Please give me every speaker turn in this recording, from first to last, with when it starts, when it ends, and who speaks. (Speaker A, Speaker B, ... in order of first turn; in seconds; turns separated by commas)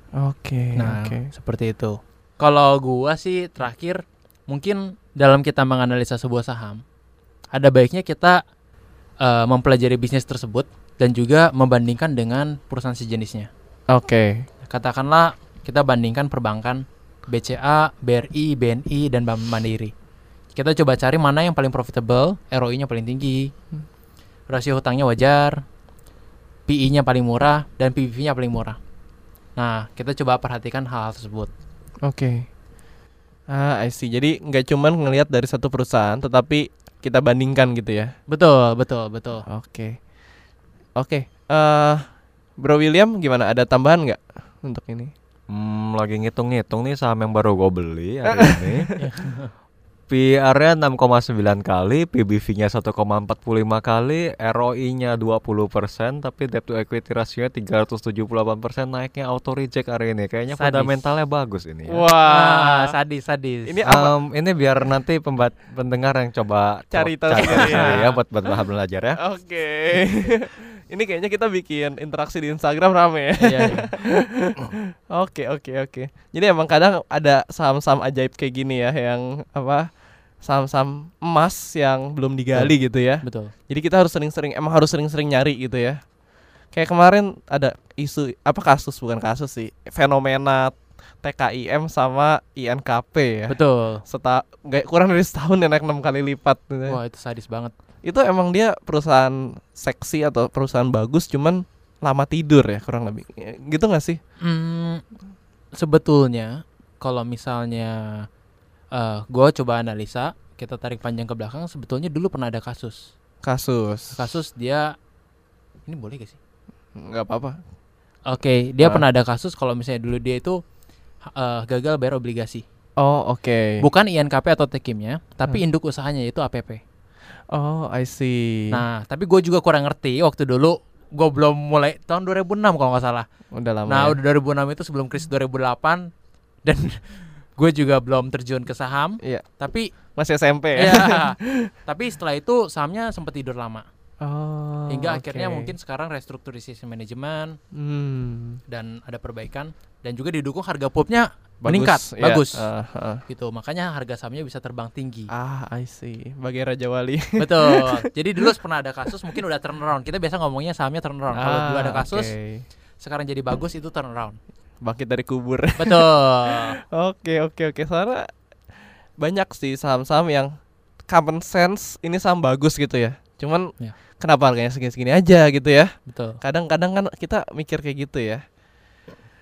Speaker A: 0.2-1.3, Speaker B: 0.8-6.8, Speaker B: 7.5-8.4, Speaker B: 9.2-13.5, Speaker A: 13.9-14.5, Speaker B: 14.7-19.9, Speaker B: 20.6-23.5, Speaker B: 24.5-25.6, Speaker B: 26.7-28.8, Speaker B: 29.6-31.5, Speaker A: 32.0-32.5, Speaker A: 33.5-38.1, Speaker B: 38.3-39.4, Speaker A: 39.5-40.0, Speaker A: 41.0-42.1, Speaker A: 42.6-45.1, Speaker C: 45.5-48.9, Speaker A: 48.3-49.0, Speaker B: 49.0-49.5, Speaker C: 50.1-62.0, Speaker B: 60.6-61.0, Speaker A: 61.9-62.9, Speaker B: 62.3-63.7, Speaker A: 63.7-64.1, Speaker C: 63.9-69.2, Speaker A: 66.9-68.2, Speaker B: 67.4-68.0, Speaker A: 69.2-86.0, Speaker B: 73.4-73.9, Speaker B: 82.5-83.5, Speaker A: 86.7-97.0, Speaker B: 93.5-94.0, Speaker B: 96.9-97.7, Speaker A: 98.0-104.2, Speaker B: 104.4-105.0, Speaker B: 105.8-108.2, Speaker B: 108.9-113.1, Speaker A: 113.4-114.2, Speaker B: 114.1-114.9, Speaker B: 115.9-116.4, Speaker A: 117.0-117.6, Speaker B: 118.3-120.6, Speaker B: 121.3-122.6, Speaker A: 123.0-123.8, Speaker B: 123.8-126.8, Speaker A: 127.5-128.8, Speaker B: 128.7-133.3, Speaker A: 133.5-134.2, Speaker B: 133.9-136.1, Speaker B: 136.7-139.9, Speaker A: 140.2-141.7, Speaker B: 140.8-143.9, Speaker A: 144.2-145.7, Speaker B: 144.9-147.6, Speaker A: 147.7-148.6, Speaker B: 148.7-152.7, Speaker A: 151.6-153.2, Speaker B: 153.3-155.3, Speaker A: 155.3-158.0, Speaker B: 157.4-162.3, Speaker A: 161.4-162.7, Speaker B: 163.0-164.4, Speaker A: 164.8-168.3, Speaker B: 165.8-166.8, Speaker A: 169.2-170.5, Speaker A: 171.1-178.4, Speaker B: 176.1-176.4